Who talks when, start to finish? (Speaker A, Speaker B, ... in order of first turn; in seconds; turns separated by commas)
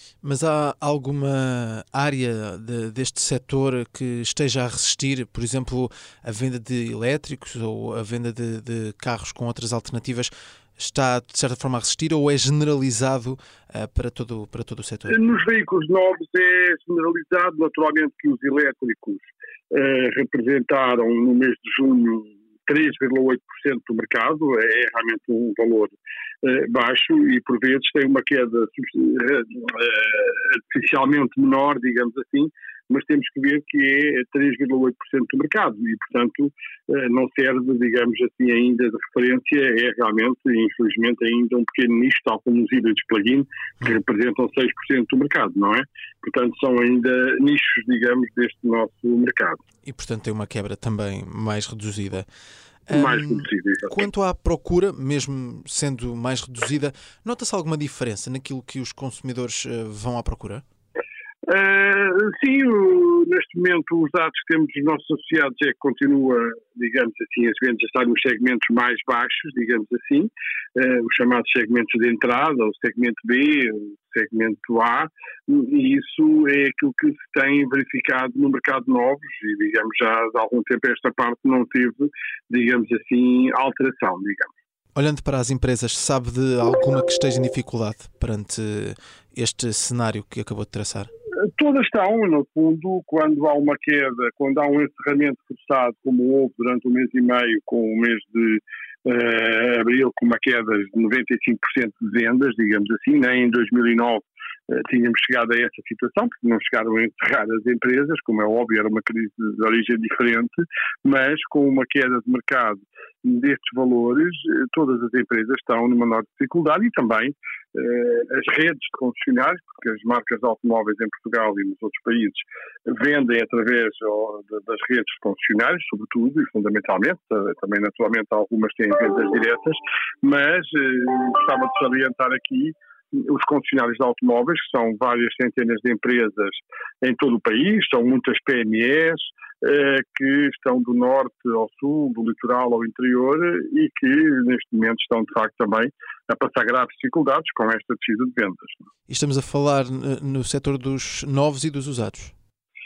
Speaker A: 0.2-15.2, Speaker B: 15.1-49.6, Speaker A: 49.8-52.3, Speaker A: 52.9-60.6, Speaker B: 52.9-54.1, Speaker B: 61.5-84.5, Speaker A: 85.0-91.1, Speaker B: 91.5-148.8, Speaker A: 149.1-152.3